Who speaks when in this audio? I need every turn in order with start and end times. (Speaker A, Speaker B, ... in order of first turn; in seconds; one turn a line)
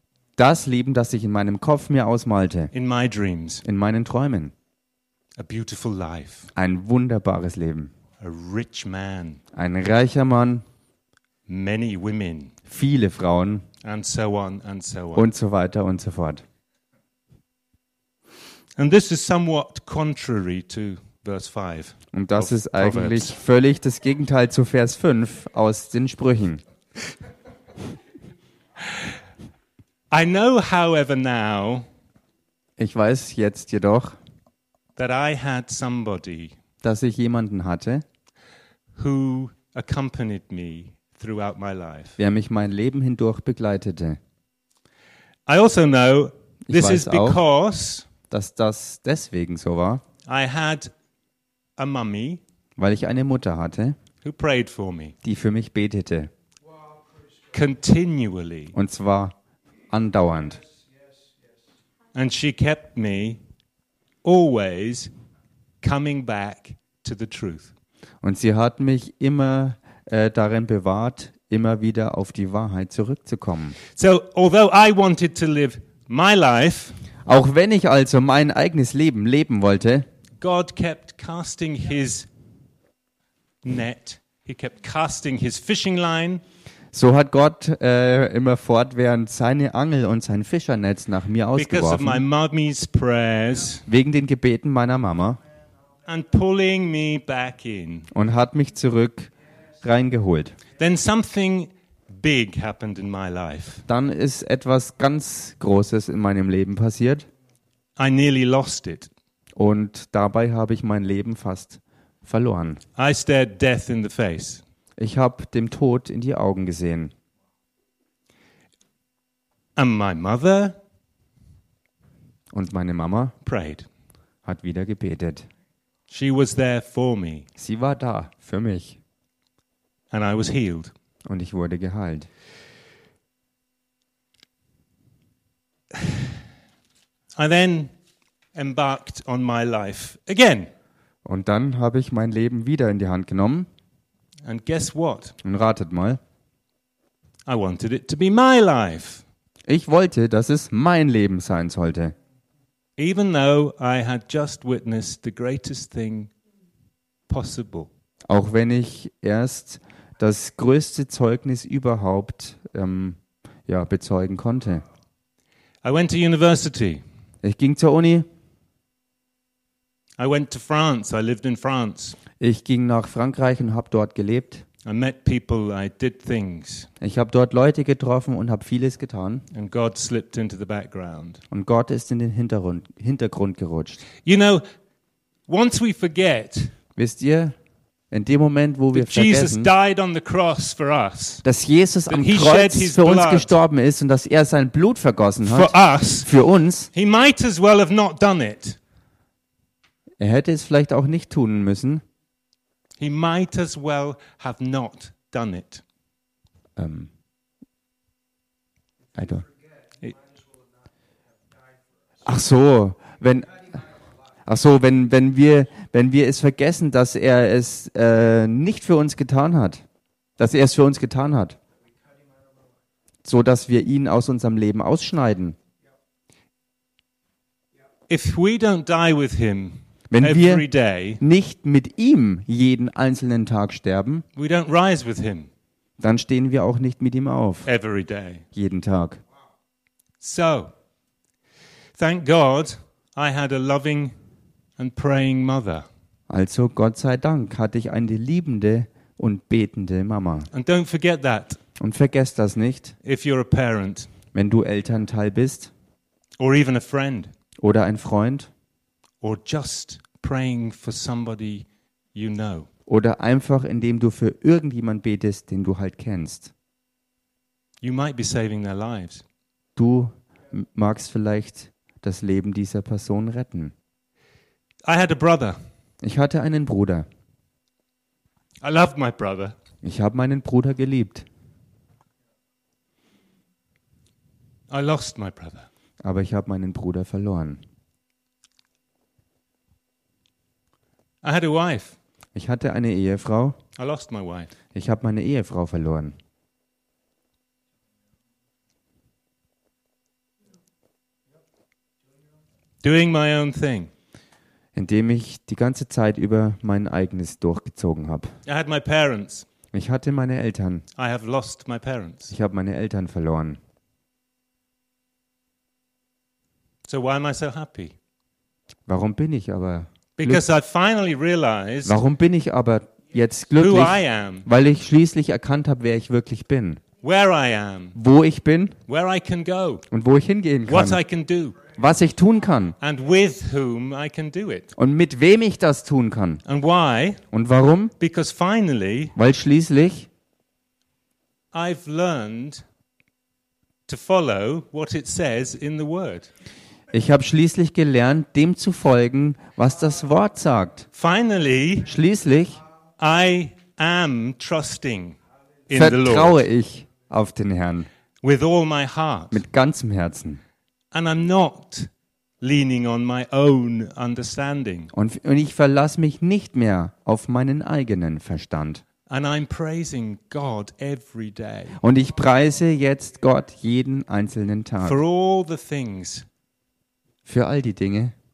Speaker A: 0.4-2.7
Speaker B: 2.7-3.6
Speaker A: 3.6-4.5
Speaker B: 5.4-6.5
Speaker A: 6.6-7.9
Speaker B: 8.2-9.4
Speaker A: 9.5-10.7
Speaker B: 11.5-12.6
Speaker A: 12.7-13.7
Speaker B: 13.8-15.3
Speaker A: 15.2-16.4
Speaker B: 18.8-23.4
Speaker A: 22.1-26.6
Speaker B: 30.1-31.9
Speaker A: 32.8-34.2
Speaker B: 35.0-36.5
Speaker A: 36.8-38.0
Speaker B: 39.0-42.2
Speaker A: 42.2-44.2
Speaker B: 45.5-48.1
Speaker A: 46.7-47.4
Speaker A: 48.3-50.0
Speaker B: 50.3-50.9
Speaker B: 51.8-52.4
Speaker A: 52.8-54.0
Speaker B: 54.2-55.1
Speaker A: 55.2-56.3
Speaker B: 57.5-58.8
Speaker A: 58.7-59.3
Speaker A: 59.9-60.6
Speaker B: 62.1-63.4
Speaker B: 64.2-65.1
Speaker B: 65.8-67.7
Speaker A: 68.2-73.8
Speaker B: 74.0-77.0
Speaker A: 77.3-80.1
Speaker B: 80.4-82.3
Speaker B: 83.6-86.4
Speaker A: 86.9-92.2
Speaker B: 91.6-93.8
Speaker A: 93.9-95.4
Speaker B: 96.1-98.1
Speaker A: 98.1-100.6
Speaker B: 100.8-103.8
Speaker A: 103.9-107.3
Speaker B: 108.0-109.1
Speaker A: 109.6-112.8
Speaker B: 113.0-114.6
Speaker A: 115.0-117.1
Speaker B: 119.8-120.8
Speaker A: 122.5-123.3
Speaker B: 123.4-123.9
Speaker A: 124.5-125.5
Speaker B: 126.1-127.5
Speaker A: 127.6-129.0
Speaker B: 130.1-130.9
Speaker A: 131.3-132.3
Speaker B: 137.4-137.9
Speaker B: 138.6-140.7
Speaker A: 141.2-143.7
Speaker B: 144.4-145.3
Speaker A: 145.4-146.2
Speaker B: 147.5-149.2
Speaker A: 149.7-152.1
Speaker B: 153.0-156.3
Speaker B: 157.3-157.9
Speaker A: 158.3-164.8
Speaker B: 165.8-167.0
Speaker A: 167.4-168.3
Speaker B: 170.2-172.2
Speaker A: 172.4-174.7
Speaker B: 174.8-176.9
Speaker A: 177.0-179.4
Speaker B: 179.5-181.4
Speaker A: 181.5-184.0
Speaker B: 184.2-184.7
Speaker B: 185.5-186.7
Speaker A: 187.0-187.6
Speaker A: 188.1-189.7
Speaker B: 188.9-191.4
Speaker A: 191.4-196.9
Speaker B: 192.1-193.6
Speaker B: 195.4-196.3
Speaker B: 196.9-198.8
Speaker A: 200.2-202.0
Speaker B: 203.0-205.8
Speaker A: 206.8-207.1
Speaker A: 209.2-209.5
Speaker A: 212.2-213.8
Speaker A: 214.5-219.8
Speaker A: 220.4-221.6
Speaker A: 223.2-225.6
Speaker B: 228.1-231.2
Speaker A: 230.1-230.7
Speaker A: 231.2-234.2
Speaker B: 234.4-235.5
Speaker A: 236.0-237.7
Speaker B: 237.7-238.4
Speaker A: 238.5-239.2
Speaker B: 240.2-240.7
Speaker B: 242.0-244.1
Speaker B: 244.8-245.9
Speaker A: 246.3-250.5
Speaker B: 250.5-251.6
Speaker A: 251.8-252.9
Speaker B: 253.0-254.1
Speaker A: 254.3-255.7
Speaker B: 256.4-257.3
Speaker A: 257.6-258.5
Speaker B: 259.2-262.7
Speaker A: 262.9-266.5
Speaker B: 267.8-269.2
Speaker A: 269.8-273.7
Speaker B: 274.9-275.6
Speaker A: 276.0-277.1
Speaker B: 278.6-279.6
Speaker A: 279.8-281.3
Speaker B: 284.7-285.7
Speaker A: 286.0-287.6
Speaker B: 291.2-292.0
Speaker A: 292.4-293.6
Speaker B: 293.8-294.5
Speaker A: 294.7-296.1
Speaker B: 302.8-303.9
Speaker A: 304.8-308.3
Speaker B: 308.5-309.5
Speaker A: 309.7-310.9
Speaker B: 311.0-312.3
Speaker A: 312.3-313.6
Speaker B: 316.9-317.9
Speaker A: 318.9-320.4
Speaker B: 320.2-322.0
Speaker A: 321.9-326.8
Speaker B: 323.6-324.5
Speaker B: 327.0-328.0
Speaker A: 327.9-328.8
Speaker B: 328.9-329.9
Speaker A: 329.9-331.0
Speaker B: 330.7-331.6
Speaker A: 331.7-332.8
Speaker B: 332.8-334.7
Speaker A: 334.8-336.4
Speaker B: 336.4-337.2
Speaker A: 337.3-337.9
Speaker B: 338.0-339.1
Speaker A: 339.2-340.1
Speaker B: 341.5-342.6
Speaker B: 343.9-346.3
Speaker A: 346.9-350.9
Speaker B: 350.9-351.9
Speaker A: 351.9-352.6
Speaker B: 353.0-355.2
Speaker B: 355.7-356.4
Speaker A: 355.7-357.9
Speaker B: 358.2-359.4
Speaker A: 359.3-360.4
Speaker B: 360.9-361.9
Speaker B: 362.4-364.9
Speaker A: 364.9-368.8
Speaker B: 369.1-371.8
Speaker A: 371.8-375.0
Speaker B: 374.8-376.3
Speaker A: 377.3-378.1